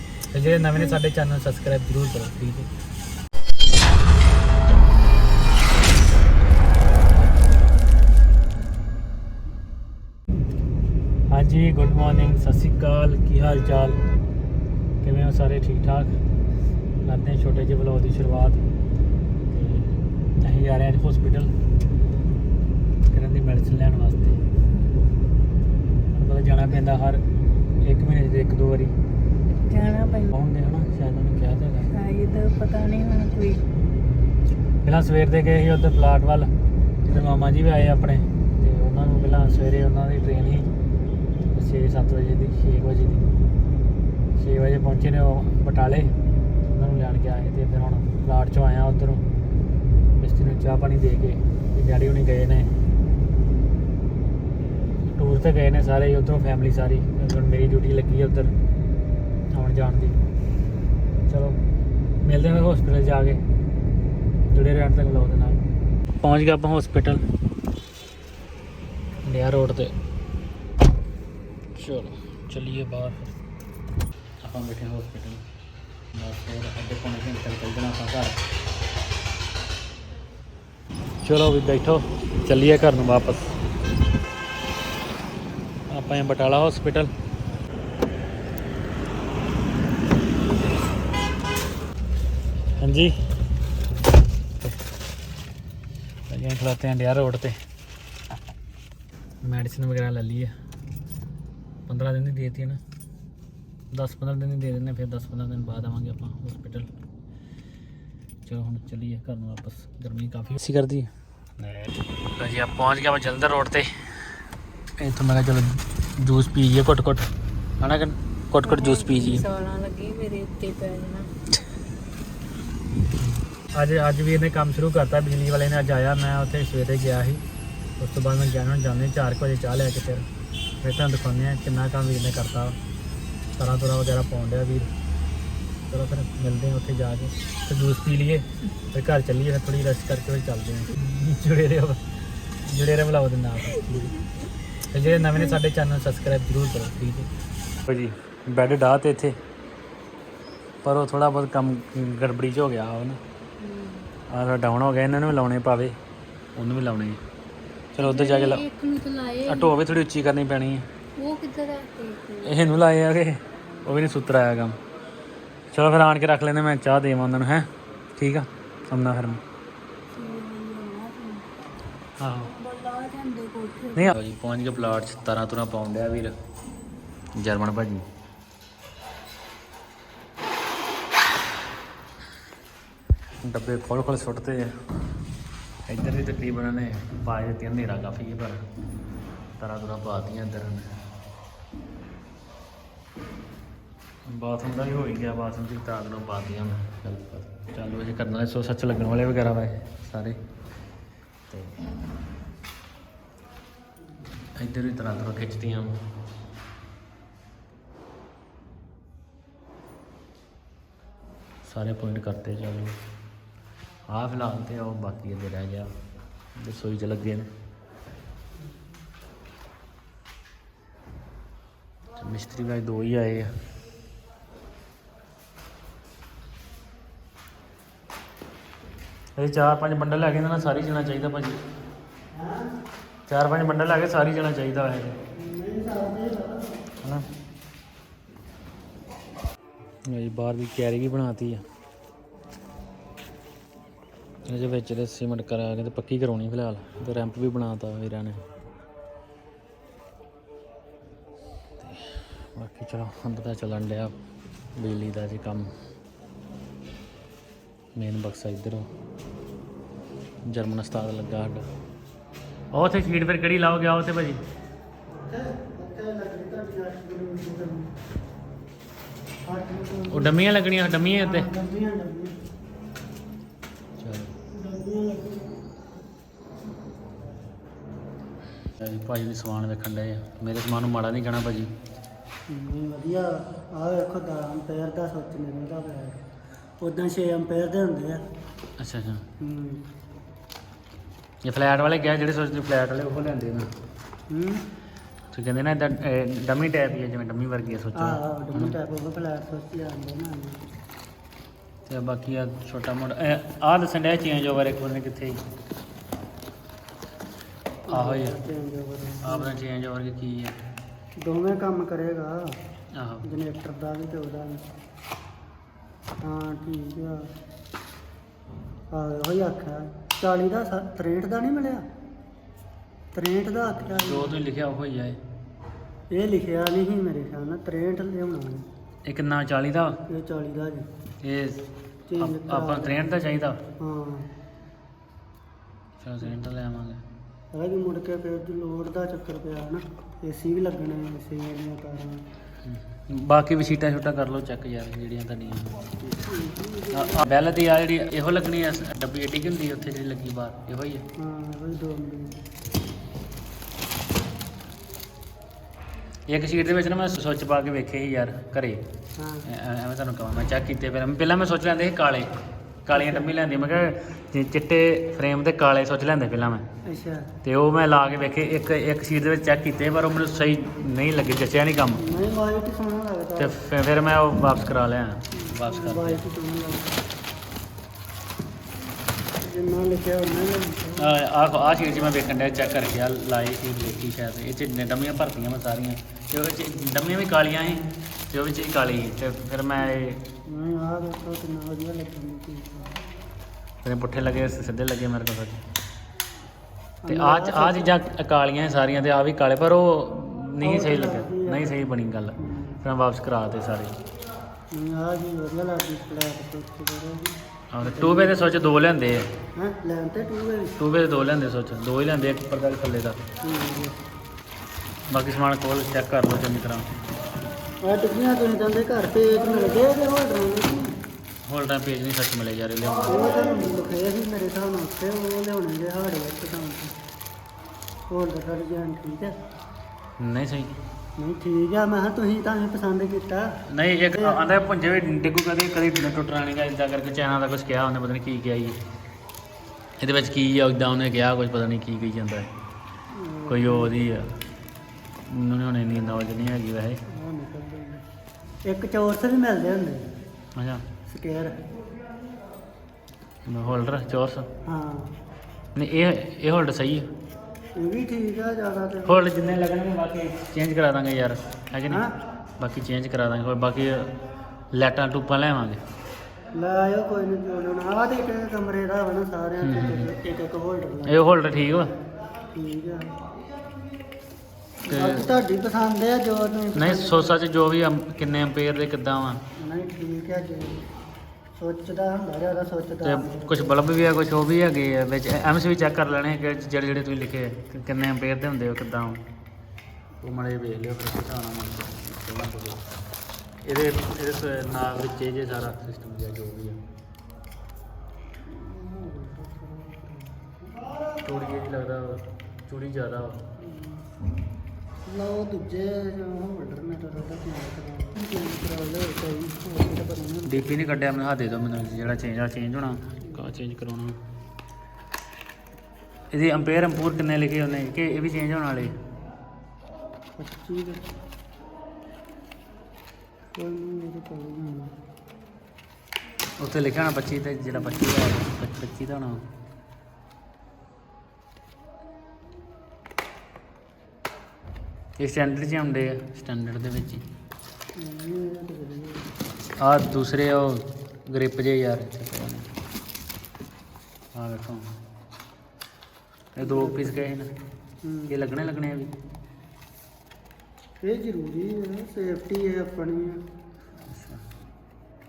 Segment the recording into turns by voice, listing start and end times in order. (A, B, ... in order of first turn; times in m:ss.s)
0:00.3-0:02.7 A
0:11.3-0:14.0 A
0:15.0-0:16.1 A
0:17.0-0:18.6 A
0:19.5-0:21.5 A
0:23.1-0:24.4 A
0:26.1-0:27.2 A
0:27.8-0:28.9 A
0:29.6-0:30.3 B
0:30.3-0:31.9 A
0:31.9-0:33.6 B
0:34.8-0:36.5 A
0:37.0-0:40.7 A
0:41.5-0:43.3 A
0:44.4-0:46.1 A
0:46.7-0:49.2 A
0:50.2-0:52.7 A
0:55.1-0:58.5 A
0:59.5-1:00.2 A
1:01.3-1:01.6 A
1:02.2-1:03.4 A
1:04.5-1:05.6 A
1:06.2-1:07.2 A
1:09.2-1:09.9 A
1:11.7-1:13.3 A
1:14.4-1:15.4 A
1:16.1-1:18.4 A
1:21.2-1:23.6 A
1:25.9-1:27.1 A
1:32.8-1:33.2 A
1:36.3-1:37.6 A
1:39.4-1:40.5 A
1:41.9-1:42.8 A
1:43.9-1:46.9 A
1:48.4-1:53.9 A
1:55.0-1:57.3 A
1:57.8-1:59.4 A
1:58.6-2:01.3 B
2:03.1-2:07.4 A
2:08.0-2:10.3 A
2:10.8-2:12.8 A
2:13.6-2:14.9 A
2:15.9-2:22.0 A
2:22.6-2:24.2 A
2:24.9-2:27.3 A
2:27.8-2:29.4 A
2:30.8-2:33.2 A
2:33.6-2:34.1 B
2:34.3-2:36.0 A
2:36.5-2:37.2 A
2:37.9-2:38.6 A
2:38.0-2:39.7 B
2:39.4-2:40.9 A
2:41.2-2:42.6 B
2:42.4-2:44.8 A
2:45.7-2:49.4 A
2:50.1-2:51.5 B
2:52.2-2:52.5 A
2:52.4-2:54.1 B
2:53.9-2:56.4 A
2:57.3-2:58.0 A
3:03.4-3:04.8 A
3:05.8-3:08.6 A
3:09.6-3:11.0 A
3:14.2-3:20.4 A
3:21.5-3:21.8 A
3:24.6-3:26.0 A
3:31.6-3:32.9 A
3:34.1-3:35.9 A
3:36.5-3:37.5 A
3:42.2-3:43.5 A
3:49.4-3:51.6 A
3:52.3-3:52.7 C
3:53.3-3:55.2 A
3:55.3-3:56.6 C
4:00.0-4:01.6 A
4:04.4-4:08.4 A
4:11.8-4:14.2 A
4:14.8-4:15.7 A
4:17.9-4:18.9 A
4:20.4-4:21.7 A
4:22.7-4:24.4 A
4:25.1-4:27.9 C
4:29.4-4:30.4 C
4:30.1-4:31.5 A
4:31.2-4:32.3 C
4:34.0-4:34.3 A
4:34.5-4:35.6 C
4:38.8-4:41.7 A
4:42.5-4:46.2 C
4:46.8-4:48.2 C
4:48.8-4:49.2 A
4:49.4-4:49.8 C
4:51.4-4:53.7 A
4:54.3-4:54.6 C
4:55.3-4:58.8 A
4:57.9-5:00.6 C
5:01.8-5:05.4 A
5:07.9-5:09.6 C
5:07.9-5:08.4 A
5:09.2-5:10.5 A
5:11.2-5:12.6 C
5:12.9-5:13.2 A
5:13.2-5:14.6 C
5:16.2-5:17.3 C
5:18.9-5:21.8 C
5:23.1-5:24.4 C
5:23.9-5:25.2 A
5:26.1-5:28.7 C
5:29.0-5:30.0 A
5:30.1-5:30.8 C
5:31.2-5:33.6 A
5:32.1-5:33.0 C
5:33.8-5:34.3 C
5:36.0-5:37.0 A
5:37.5-5:42.2 C
5:42.6-5:45.9 A
5:46.1-5:47.3 C
5:46.9-5:51.0 A
5:51.2-5:52.4 C
5:56.3-5:58.8 A
5:59.2-5:59.4 C
5:59.4-6:02.3 A
6:02.8-6:06.6 A
6:02.9-6:03.3 C
6:06.8-6:07.3 C
6:07.4-6:12.0 A
6:12.0-6:13.6 C
6:13.4-6:16.2 A
6:15.4-6:16.9 C
6:19.4-6:21.1 C
6:21.0-6:30.2 A
6:30.5-6:33.0 C
6:33.8-6:35.6 A
6:37.0-6:38.0 C
6:37.1-6:43.9 A
6:40.6-6:42.8 C
6:44.7-6:48.4 C
6:47.7-6:49.3 A
6:49.5-6:50.7 C
6:50.8-6:53.2 A
6:53.4-6:54.0 C
6:55.1-6:56.9 A
6:57.8-7:00.9 C
7:01.4-7:03.2 A
7:03.0-7:07.0 C
7:08.1-7:09.3 C
7:10.2-7:10.8 A
7:11.2-7:13.5 C
7:13.7-7:18.8 A
7:14.1-7:14.4 C
7:20.0-7:22.5 A
7:23.1-7:23.9 C
7:23.5-7:24.3 A
7:25.2-7:27.0 A
7:27.1-7:28.0 C
7:28.7-7:30.0 C
7:30.6-7:30.8 A
7:31.1-7:31.6 C
7:33.4-7:34.5 A
7:34.6-7:35.1 C
7:35.7-7:37.1 A
7:37.8-7:39.2 C
7:39.0-7:42.0 A
7:42.6-7:44.1 A
7:44.7-7:45.8 A
7:46.5-7:51.2 C
7:49.6-7:50.1 A
7:51.0-7:51.9 A
7:52.5-7:53.1 C
7:54.8-7:57.4 C
7:54.9-7:55.2 A
7:56.7-7:59.4 A
7:59.6-8:00.8 C
8:01.6-8:03.7 C
8:03.0-8:09.2 A
8:10.2-8:12.8 A
8:13.6-8:16.8 A
8:18.4-8:20.7 C
8:21.2-8:23.4 A
8:23.6-8:24.1 C
8:25.0-8:30.8 C
8:30.5-8:34.2 A
8:36.3-8:38.9 A
8:40.4-8:41.1 C
8:43.6-8:44.9 C
8:46.6-8:49.4 A
8:47.7-8:48.1 C
8:55.2-8:57.2 A
8:58.0-8:59.2 C
8:59.8-9:02.7 A
9:04.3-9:05.0 A
9:06.5-9:07.5 A
9:06.6-9:07.3 C
9:08.0-9:08.4 C
9:08.3-9:09.1 A
9:11.0-9:13.4 C
9:14.1-9:14.4 A